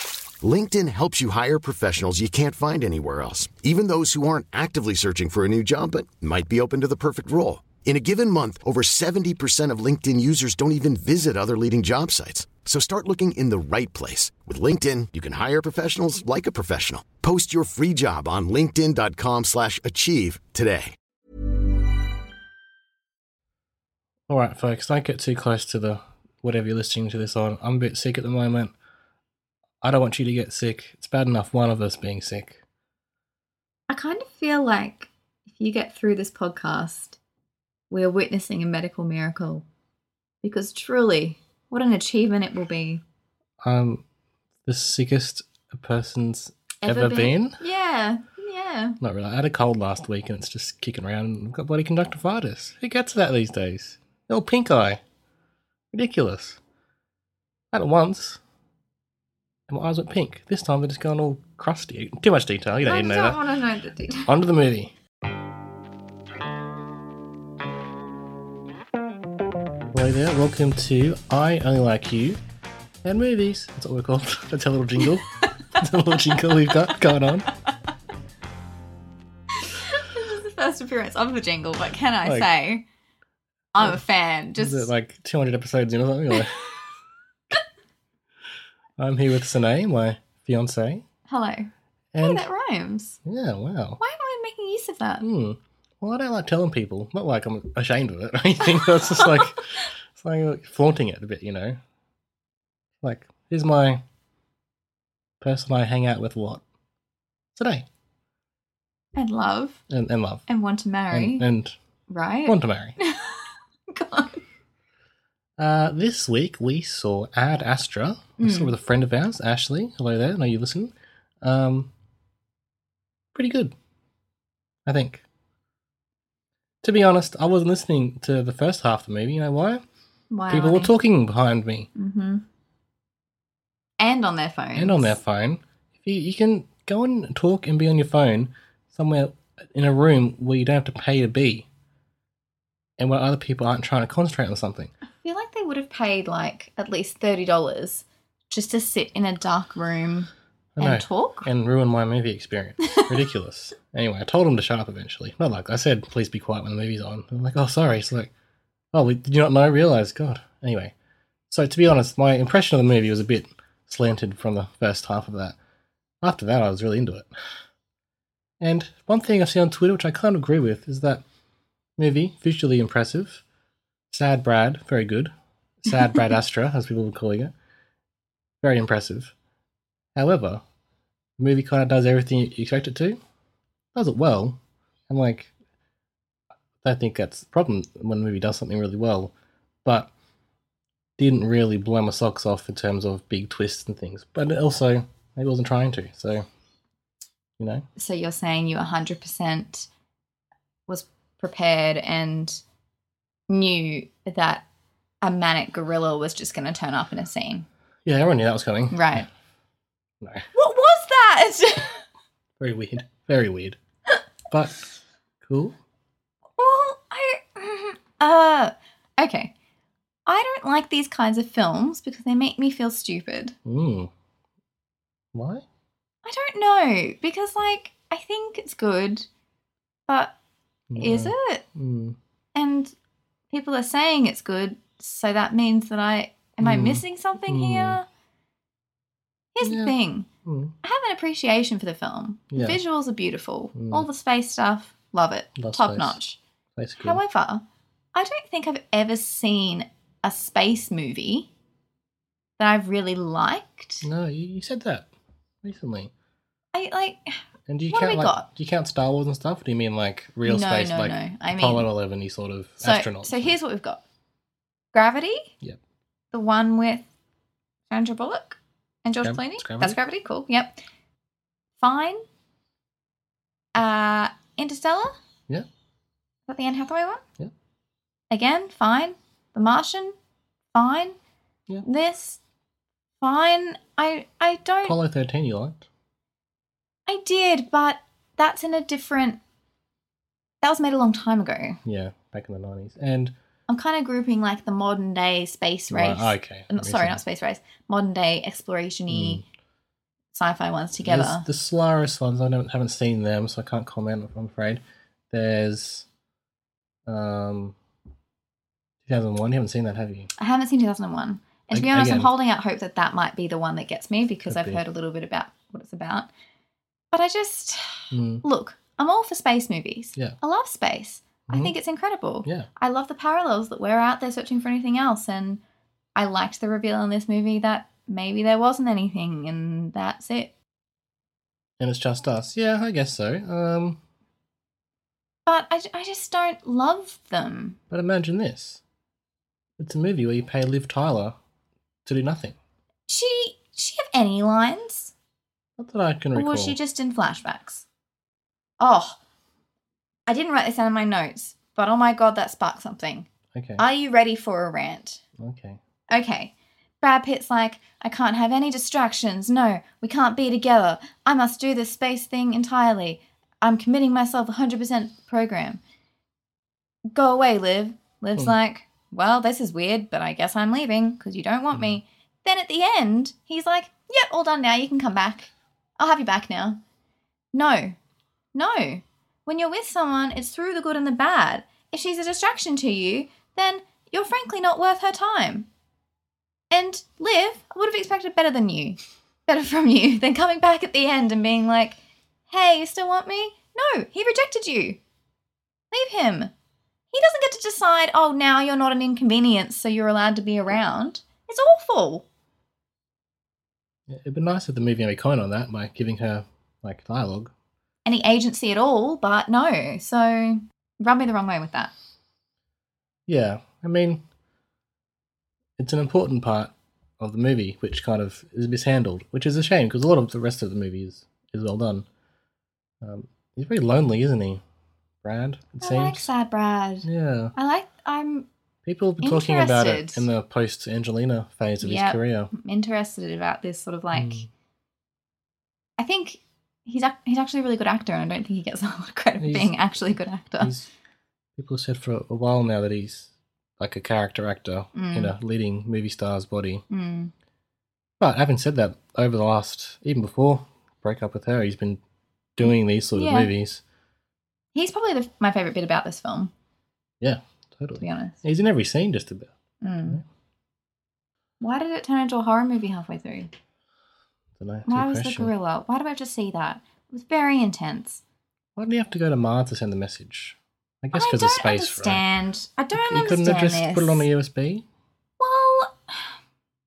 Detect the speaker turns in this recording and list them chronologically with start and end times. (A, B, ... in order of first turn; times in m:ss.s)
0:00.4-0:21.0 A
0:24.3-0:28.7 B
0:29.8-0:32.6 B
0:33.9-0:37.2 C
0:37.9-0:39.6 C
0:40.4-0:43.0 C
0:43.6-0:44.0 B
0:44.6-0:47.6 B
0:46.8-0:49.0 C
0:49.0-0:55.0 B
0:55.9-0:56.6 B
0:57.7-0:58.4 B
0:59.7-1:03.4 B
1:02.8-1:04.3 C
1:04.3-1:04.9 B
1:09.9-1:12.4 B
1:13.0-1:17.5 B
1:19.6-1:22.8 C
1:22.2-1:22.5 B
1:23.7-1:24.9 C
1:24.6-1:26.7 B
1:29.0-1:31.0 B
1:31.3-1:33.2 C
1:32.1-1:32.5 B
1:33.2-1:34.0 B
1:34.0-1:35.2 C
1:35.2-1:41.8 B
1:43.0-1:44.0 B
1:45.4-1:46.6 B
1:47.6-1:47.9 B
1:49.2-1:49.8 C
1:49.9-1:50.4 B
1:50.5-1:51.4 C
1:51.1-1:51.8 B
1:52.1-1:54.4 C
1:52.5-1:53.0 B
1:55.6-2:01.9 B
1:58.4-1:58.8 C
2:03.3-2:03.8 B
2:04.9-2:05.2 B
2:06.8-2:09.8 B
2:10.3-2:10.9 C
2:10.5-2:11.9 B
2:12.0-2:12.4 C
2:14.0-2:15.2 C
2:14.8-2:21.7 B
2:23.0-2:24.9 B
2:25.2-2:30.3 C
2:30.8-2:38.3 B
2:30.8-2:31.5 C
2:38.9-2:40.9 B
2:41.5-2:45.6 B
2:46.2-2:47.3 B
2:48.6-2:51.2 B
2:52.0-2:53.4 B
2:54.1-2:57.5 B
2:58.6-2:59.3 B
3:00.2-3:00.6 B
3:01.4-3:03.2 B
3:04.0-3:05.5 B
3:06.8-3:09.3 B
3:09.8-3:10.1 B
3:11.2-3:16.5 B
3:17.6-3:17.8 B
3:18.0-3:19.9 C
3:20.9-3:22.6 C
3:23.5-3:24.7 C
3:25.2-3:27.7 C
3:28.0-3:29.2 B
3:28.9-3:29.3 C
3:30.2-3:30.5 B
3:30.6-3:32.0 C
3:32.6-3:33.8 B
3:34.5-3:34.8 B
3:35.4-3:35.8 B
3:36.6-3:39.5 C
3:40.3-3:43.6 C
3:43.7-3:44.1 B
3:45.3-3:45.6 B
3:46.2-3:49.3 C
3:50.1-3:50.4 C
3:50.9-3:52.2 B
3:51.0-3:51.6 C
3:52.6-3:52.9 C
3:53.5-3:58.1 C
3:56.6-3:58.0 B
3:59.6-4:00.3 C
3:59.6-3:59.9 B
4:00.4-4:00.7 B
4:00.8-4:06.4 C
4:02.5-4:02.8 B
4:03.8-4:04.1 B
4:05.6-4:06.2 B
4:06.8-4:07.2 B
4:07.0-4:07.6 C
4:08.1-4:11.5 C
4:12.6-4:14.1 C
4:14.0-4:15.1 B
4:15.6-4:16.1 B
4:16.7-4:17.4 C
4:17.7-4:23.6 B
4:17.9-4:18.5 C
4:20.5-4:21.9 C
4:22.8-4:24.0 C
4:24.9-4:25.5 C
4:26.3-4:27.1 C
4:27.9-4:30.8 C
4:29.2-4:30.0 B
4:31.8-4:32.2 C
4:33.8-4:35.1 C
4:36.5-4:37.2 C
4:38.3-4:40.2 C
4:40.7-4:41.2 C
4:41.8-4:42.4 C
4:43.2-4:45.0 C
4:44.8-4:45.9 B
4:47.1-4:49.4 C
4:50.6-4:51.8 C
4:51.8-4:53.3 B
4:53.7-4:59.4 C
4:55.9-4:57.2 B
4:59.1-4:59.4 B
5:00.3-5:01.5 C
5:01.0-5:06.1 B
5:07.1-5:07.8 B
5:09.0-5:10.3 B
5:10.4-5:16.3 C
5:11.7-5:12.3 B
5:14.5-5:14.8 B
5:17.1-5:25.6 C
5:18.1-5:18.4 B
5:21.5-5:21.7 B
5:26.2-5:30.5 C
5:31.8-5:34.0 B
5:35.5-5:37.8 C
5:37.9-5:38.8 B
5:39.8-5:41.4 B
5:42.0-5:42.6 B
5:43.1-5:45.1 C
5:45.8-5:46.8 B
5:46.4-5:47.8 C
5:48.8-5:49.2 C
5:50.3-5:55.2 C
5:53.5-5:53.8 B
5:55.4-5:55.8 B
5:56.1-6:05.8 C
6:07.1-6:16.8 C
6:17.5-6:18.0 C
6:18.6-6:25.7 C
6:26.7-6:32.0 C
6:32.5-6:35.0 C
6:35.9-6:36.5 C
6:37.1-6:42.2 C
6:44.1-6:47.5 B
6:48.0-6:51.9 C
6:53.3-6:54.2 B
6:55.8-7:02.1 B
7:03.0-7:04.6 B
7:05.2-7:06.3 B
7:05.8-7:08.5 C
7:07.0-7:07.5 B
7:08.8-7:12.5 B
7:09.2-7:10.3 C
7:11.8-7:14.5 C
7:14.2-7:14.5 B
7:16.0-7:20.7 C
7:19.4-7:19.8 B
7:20.6-7:20.9 B
7:21.6-7:26.8 B
7:25.0-7:25.3 C
7:26.9-7:27.3 C
7:28.2-7:32.0 B
7:32.6-7:33.8 B
7:33.2-7:33.5 C
7:34.8-7:36.5 C
7:37.2-7:39.5 B
7:38.0-7:38.4 C
7:39.8-7:40.2 C
7:41.6-7:43.5 C
7:44.6-7:45.5 B
7:44.9-7:48.2 C
7:48.8-7:52.2 B
7:51.2-7:54.3 C
7:52.9-7:54.8 B
7:55.4-7:56.3 C